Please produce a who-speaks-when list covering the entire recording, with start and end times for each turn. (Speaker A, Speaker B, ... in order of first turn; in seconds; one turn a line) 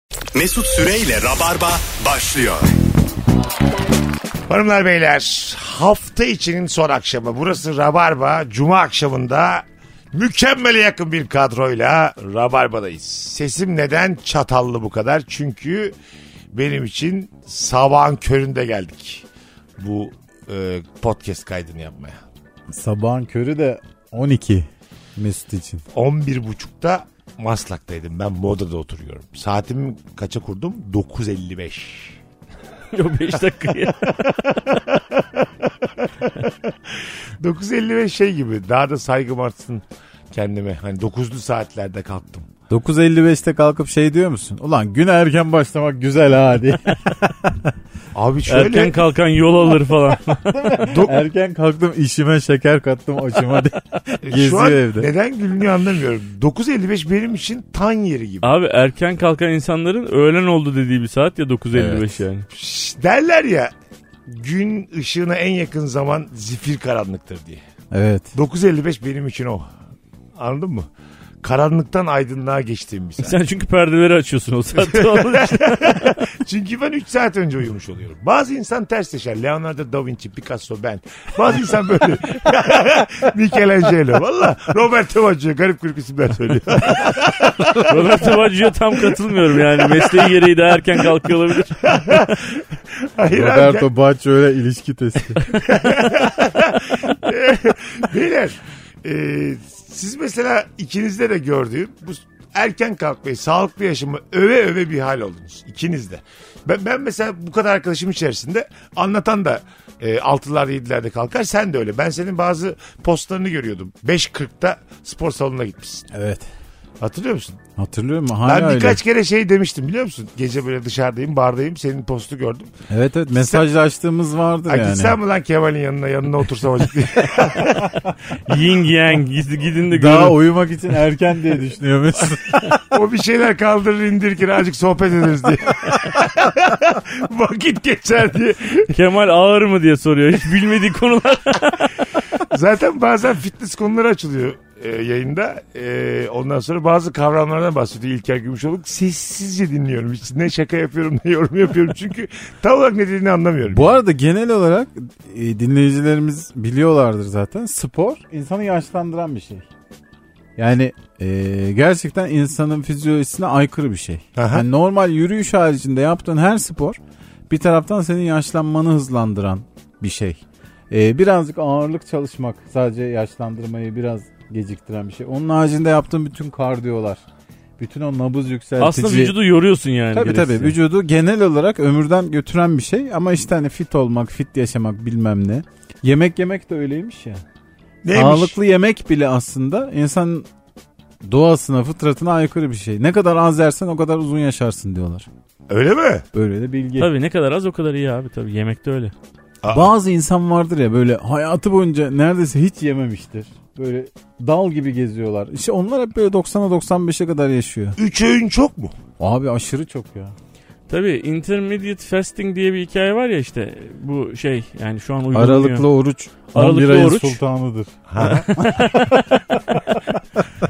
Speaker A: 0.3-2.7
Speaker B: 4.5-15.9
Speaker B: 16.5-19.2
Speaker B: 19.8-22.2
Speaker C: 22.7-25.8
Speaker B: 25.9-32.1
Speaker D: 32.9-34.3
Speaker B: 34.7-35.5
Speaker B: 36.9-42.5
Speaker C: 42.7-47.7
Speaker B: 48.1-49.0
Speaker D: 48.5-50.6
Speaker C: 50.5-55.1
Speaker B: 50.8-51.2
Speaker B: 54.2-58.5
Speaker D: 58.4-62.5
Speaker C: 61.7-62.0
Speaker B: 62.5-63.7
Speaker B: 64.3-67.6
Speaker C: 67.9-68.3
Speaker B: 68.3-69.7
Speaker B: 70.4-70.9
Speaker B: 71.4-73.3
Speaker D: 73.2-76.2
Speaker B: 74.8-88.2
Speaker D: 87.8-92.3
Speaker B: 89.7-90.3
Speaker B: 91.8-92.6
Speaker B: 93.2-93.9
Speaker C: 93.3-95.4
Speaker B: 95.6-116.1
Speaker C: 116.1-116.4
Speaker B: 117.0-117.6
Speaker C: 117.8-119.0
Speaker B: 118.4-122.7
Speaker C: 122.9-125.2
Speaker B: 123.3-123.7
Speaker B: 124.7-128.1
Speaker D: 128.4-130.4
Speaker C: 129.9-132.7
Speaker B: 132.8-138.9
Speaker D: 138.9-141.9
Speaker B: 142.3-154.0
Speaker C: 153.7-159.6
Speaker C: 160.6-177.2
Speaker B: 164.3-164.7
Speaker C: 177.8-179.4
Speaker D: 178.8-180.7
Speaker C: 180.1-187.4
Speaker B: 188.0-188.6
Speaker C: 188.1-190.4
Speaker C: 191.2-195.3
Speaker B: 195.7-196.2
Speaker C: 196.3-197.1
Speaker D: 197.0-199.1
Speaker B: 199.6-199.9
Speaker C: 199.7-208.0
Speaker B: 208.0-208.9
Speaker C: 209.2-210.3
Speaker D: 210.9-215.9
Speaker C: 215.3-219.3
Speaker D: 216.5-217.4
Speaker B: 218.1-218.5
Speaker D: 218.2-219.2